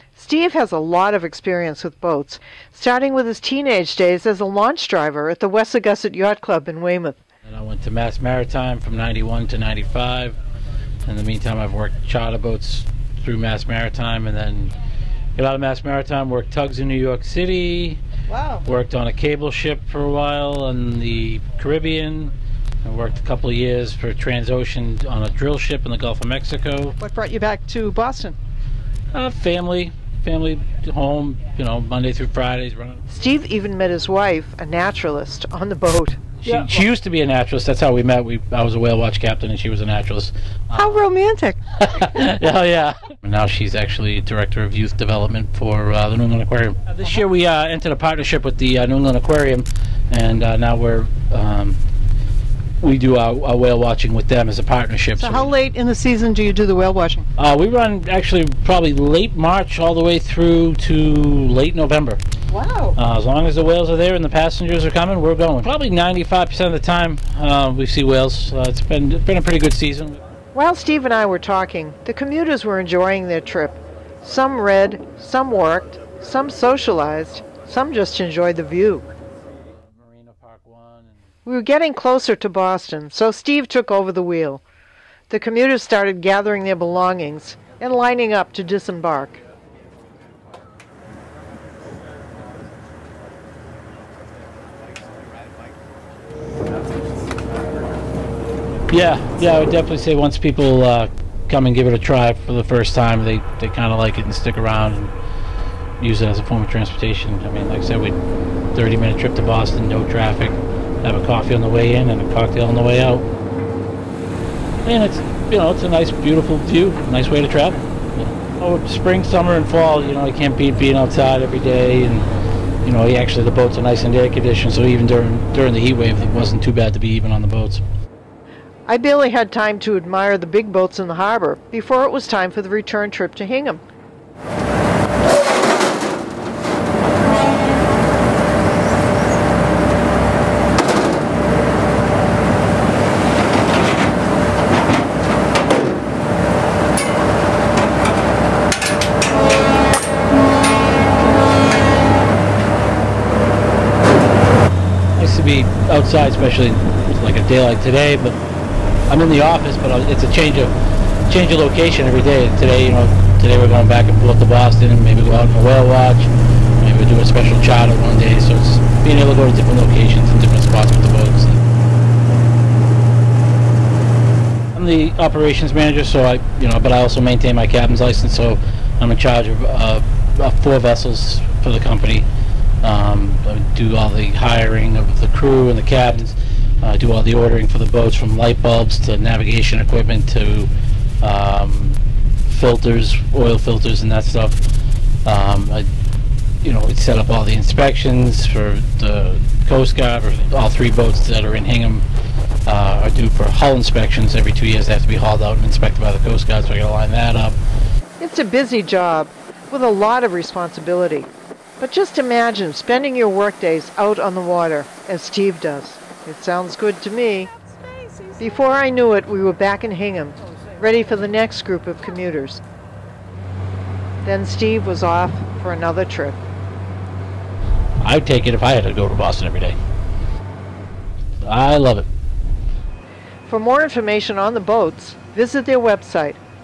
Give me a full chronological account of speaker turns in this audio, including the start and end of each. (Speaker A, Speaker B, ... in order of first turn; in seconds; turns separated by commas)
Speaker A: 0.1-7.2, Speaker B: 7.5-10.4, Speaker B: 11.1-14.8, Speaker B: 15.4-18.0, Speaker A: 18.3-18.6, Speaker B: 18.6-22.3, Speaker B: 22.8-27.0, Speaker A: 27.0-28.4, Speaker B: 29.1-33.0, Speaker A: 33.1-36.4, Speaker B: 36.4-41.0, Speaker A: 40.7-41.9, Speaker B: 41.8-51.8, Speaker B: 52.8-55.5, Speaker A: 55.2-57.3, Speaker B: 57.4-62.2, Speaker A: 62.5-63.0, Speaker B: 63.0-70.2, Speaker A: 70.5-79.1, Speaker B: 79.8-81.2, Speaker A: 81.5-84.6, Speaker A: 85.3-89.4, Speaker B: 98.9-105.1, Speaker B: 106.0-108.2, Speaker B: 108.7-113.3, Speaker B: 114.8-122.3, Speaker B: 122.8-127.8, Speaker A: 128.9-133.8, Speaker B: 155.2-158.3, Speaker B: 159.1-160.7, Speaker B: 161.3-171.6, Speaker B: 174.8-182.3, Speaker B: 182.8-194.6, Speaker B: 195.2-195.9, Speaker B: 196.6-202.1, Speaker B: 202.7-207.6, Speaker A: 208.2-222.6, Speaker A: 224.2-226.4, Speaker B: 228.0-229.8, Speaker B: 231.4-232.1, Speaker A: 233.4-236.4